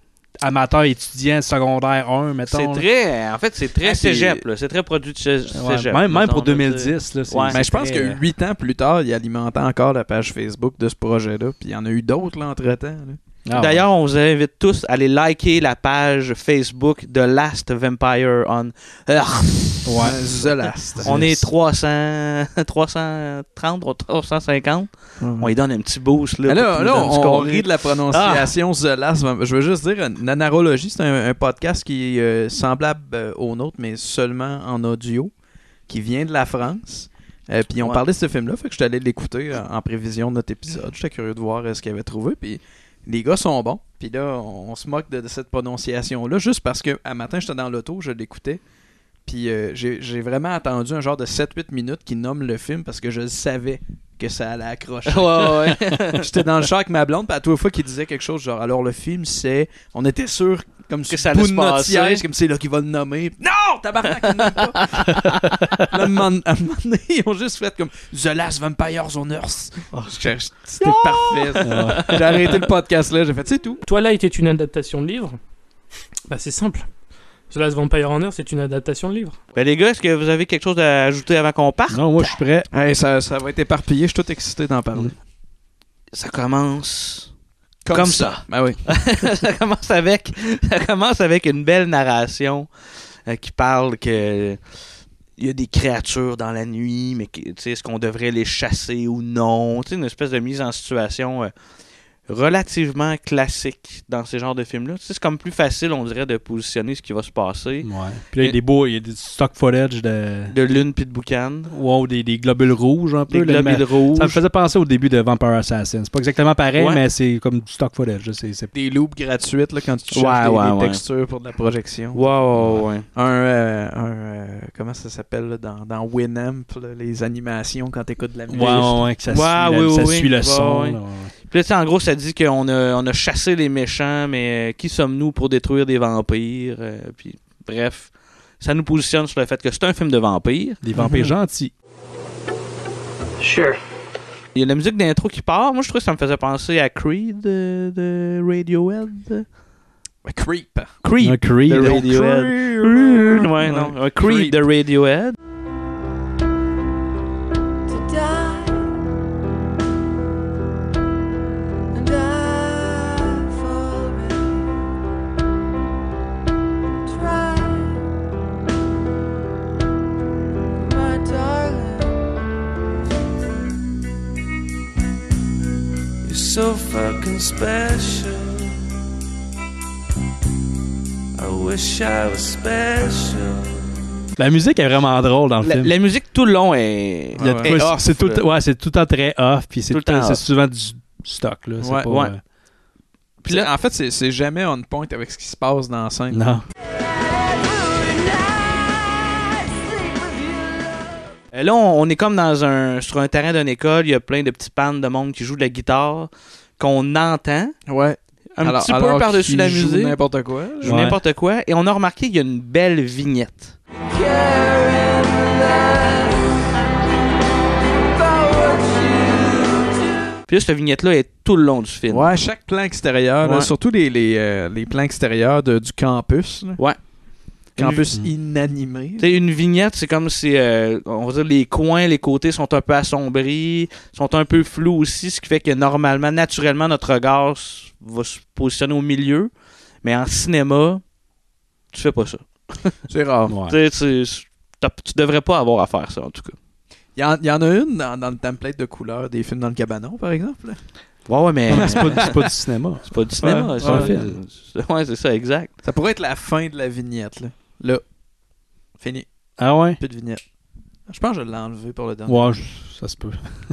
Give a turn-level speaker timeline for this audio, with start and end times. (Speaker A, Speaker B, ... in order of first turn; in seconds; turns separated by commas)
Speaker A: 0.4-2.9, Speaker B: 2.5-7.6, Speaker C: 3.8-4.4, Speaker A: 5.5-8.2, Speaker C: 7.5-13.2, Speaker A: 13.5-13.9, Speaker B: 13.6-20.0, Speaker A: 19.9-20.2, Speaker C: 20.0-21.1, Speaker A: 21.0-21.5, Speaker B: 21.0-28.5, Speaker C: 25.2-25.5, Speaker C: 26.5-35.3, Speaker C: 35.9-48.6, Speaker C: 49.3-65.0, Speaker B: 55.1-56.2, Speaker B: 61.1-62.2, Speaker B: 64.5-65.4, Speaker C: 65.9-73.8, Speaker B: 70.8-72.5, Speaker A: 71.6-72.2, Speaker D: 73.9-75.4, Speaker D: 76.3-76.9, Speaker D: 77.5-79.4, Speaker B: 79.5-82.3, Speaker A: 81.9-82.7, Speaker C: 82.7-85.1, Speaker B: 86.1-87.3, Speaker C: 87.8-88.8, Speaker B: 87.9-92.7, Speaker B: 93.3-94.6, Speaker B: 95.4-101.5, Speaker B: 102.3-108.6, Speaker A: 107.8-110.5, Speaker B: 110.5-111.7, Speaker A: 111.7-118.7, Speaker B: 113.3-114.4, Speaker B: 116.8-117.0, Speaker C: 118.7-122.2, Speaker B: 120.1-121.0, Speaker B: 122.1-123.1, Speaker C: 123.1-129.1, Speaker A: 128.5-131.3, Speaker B: 128.6-140.8, Speaker A: 140.8-141.7, Speaker C: 140.9-141.3, Speaker B: 144.6-149.5, Speaker C: 150.2-150.9, Speaker B: 151.0-155.4, Speaker A: 151.2-152.1, Speaker C: 151.8-154.6, Speaker E: 176.2-178.8, Speaker E: 181.4-183.9, Speaker A: 184.4-185.9, Speaker B: 185.6-188.4, Speaker C: 187.4-188.0, Speaker A: 187.4-192.4, Speaker B: 189.9-190.4, Speaker C: 191.8-192.1, Speaker B: 192.1-192.3, Speaker C: 193.5-196.4, Speaker A: 196.3-196.6, Speaker B: 201.5-207.8, Speaker C: 207.9-211.0, Speaker B: 208.6-210.2, Speaker B: 210.8-213.8, Speaker A: 210.8-211.2, Speaker B: 220.5-222.3, Speaker C: 222.1-226.8, Speaker B: 223.4-223.7, Speaker C: 227.8-229.3, Speaker B: 229.2-239.5, Speaker B: 240.0-241.0, Speaker B: 241.9-242.9, Speaker C: 243.1-243.5, Speaker A: 243.5-243.8, Speaker B: 243.7-246.6, Speaker C: 247.2-250.8, Speaker B: 251.3-252.4, Speaker A: 251.7-253.1, Speaker C: 251.7-252.3, Speaker B: 253.1-255.7, Speaker C: 253.4-254.1, Speaker A: 253.8-254.4, Speaker C: 255.8-258.0, Speaker C: 259.0-259.3, Speaker A: 259.6-260.0, Speaker C: 260.0-260.4, Speaker C: 261.1-262.5, Speaker A: 262.3-263.5